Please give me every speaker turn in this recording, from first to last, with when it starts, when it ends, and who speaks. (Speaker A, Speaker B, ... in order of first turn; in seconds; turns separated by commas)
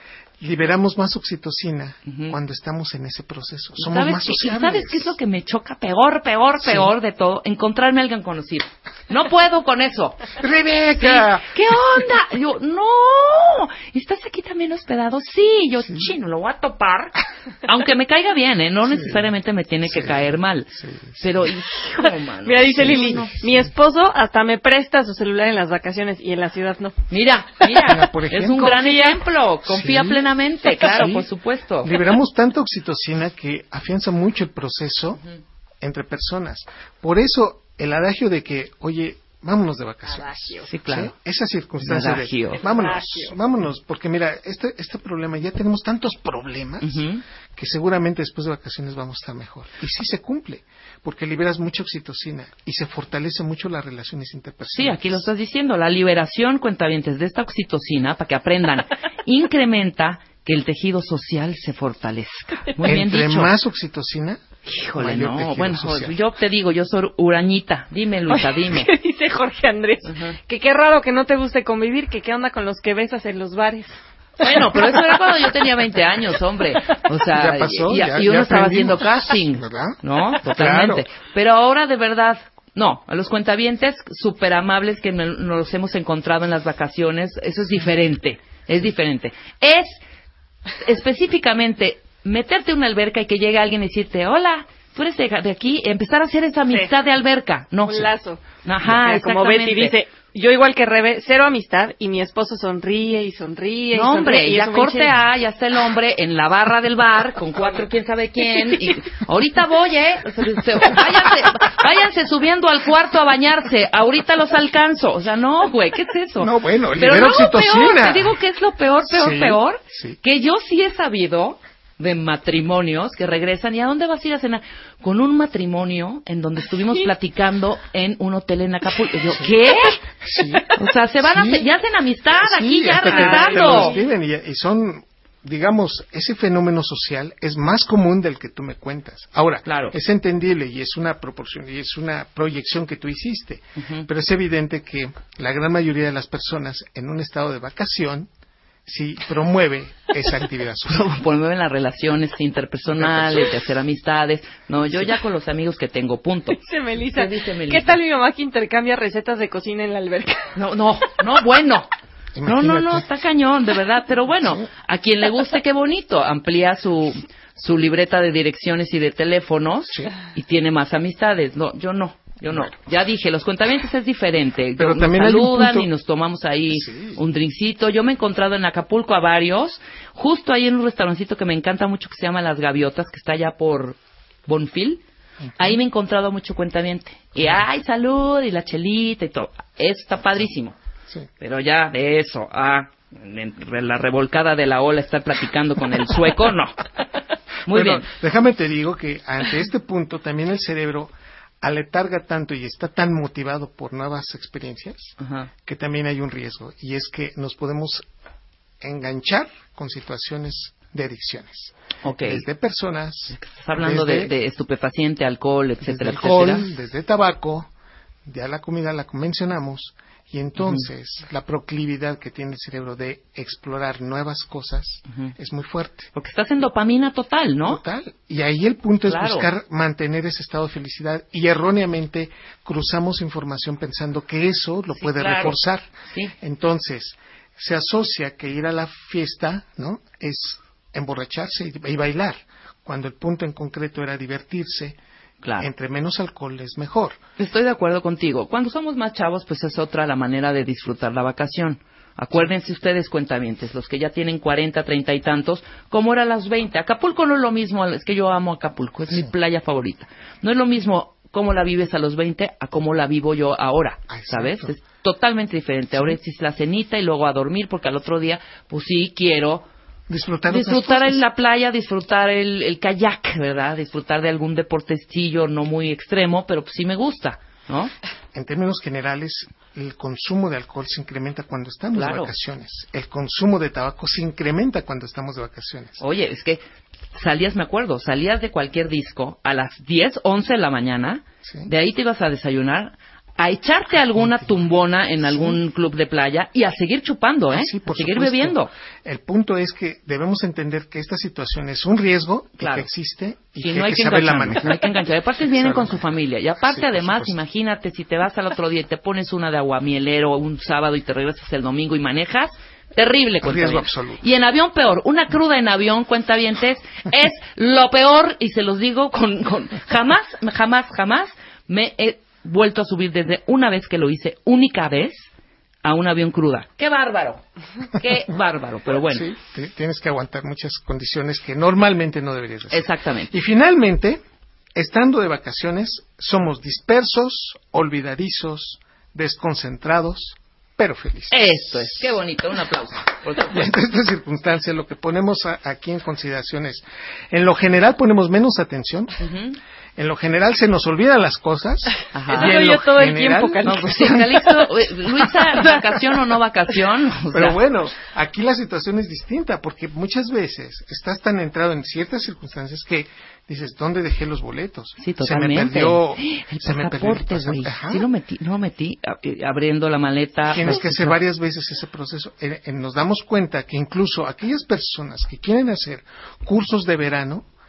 Speaker A: 0.4-5.2, Speaker B: 2.0-2.4, Speaker B: 3.8-10.3, Speaker A: 6.6-6.9, Speaker A: 10.4-12.0, Speaker B: 11.0-23.2, Speaker A: 15.8-16.1, Speaker A: 18.9-19.3, Speaker A: 19.9-21.3, Speaker C: 22.0-27.0, Speaker A: 22.7-23.7, Speaker B: 27.1-31.9, Speaker A: 27.8-28.8, Speaker C: 28.6-29.2, Speaker A: 29.6-31.3, Speaker A: 31.8-35.2, Speaker A: 35.8-47.0, Speaker C: 40.1-40.7, Speaker B: 40.6-41.1, Speaker B: 41.8-42.6, Speaker C: 42.6-43.4, Speaker B: 46.8-47.2, Speaker A: 47.5-55.3, Speaker B: 54.7-63.5, Speaker A: 62.8-64.4, Speaker B: 64.7-68.9, Speaker A: 65.0-66.2, Speaker C: 68.3-74.9, Speaker B: 70.0-70.4, Speaker B: 74.4-90.0, Speaker A: 77.3-81.0, Speaker B: 90.8-98.1, Speaker C: 97.9-105.2, Speaker B: 98.6-100.0, Speaker B: 103.9-130.0, Speaker A: 116.4-118.3, Speaker A: 119.1-120.2, Speaker A: 130.2-130.6, Speaker B: 130.8-133.9, Speaker A: 131.2-131.7, Speaker A: 132.3-148.3, Speaker C: 133.0-134.0, Speaker B: 139.7-139.9, Speaker B: 143.8-144.1, Speaker A: 148.8-151.1, Speaker B: 150.9-158.0, Speaker A: 152.9-153.6, Speaker C: 156.6-160.5, Speaker B: 160.5-161.9, Speaker A: 162.3-163.1, Speaker B: 162.4-185.0, Speaker A: 164.4-164.7, Speaker A: 174.8-175.9, Speaker A: 176.7-177.2, Speaker A: 185.4-185.8, Speaker B: 185.6-190.8, Speaker B: 191.4-196.9, Speaker B: 197.7-198.1, Speaker A: 197.7-208.1, Speaker B: 205.2-205.5, Speaker A: 208.8-214.3, Speaker B: 212.0-212.4, Speaker B: 213.3-216.7, Speaker A: 215.8-217.7, Speaker A: 218.2-226.1, Speaker B: 220.6-220.9, Speaker B: 226.1-227.8, Speaker A: 227.7-245.0, Speaker B: 229.1-229.5, Speaker B: 235.0-235.6, Speaker B: 245.4-245.7, Speaker A: 245.6-247.2, Speaker B: 247.4-269.6, Speaker A: 264.1-264.8, Speaker A: 270.1-271.2, Speaker B: 270.5-277.9, Speaker A: 278.3-286.0, Speaker B: 281.9-282.3, Speaker B: 286.0-298.7, Speaker A: 291.4-291.7, Speaker A: 294.1-294.7, Speaker A: 295.2-295.6, Speaker A: 297.5-304.9, Speaker B: 302.6-302.9, Speaker B: 303.6-325.3, Speaker A: 305.5-306.0, Speaker A: 306.6-307.4, Speaker A: 313.4-314.2, Speaker B: 325.8-329.3, Speaker A: 328.9-334.2, Speaker B: 332.7-333.3, Speaker A: 334.8-342.2, Speaker B: 341.3-343.8, Speaker A: 343.5-349.3, Speaker B: 349.2-349.6, Speaker A: 350.0-354.5, Speaker B: 352.1-352.6, Speaker C: 352.3-354.6, Speaker B: 353.6-357.6, Speaker A: 357.3-368.1, Speaker B: 365.0-371.2, Speaker A: 370.4-377.5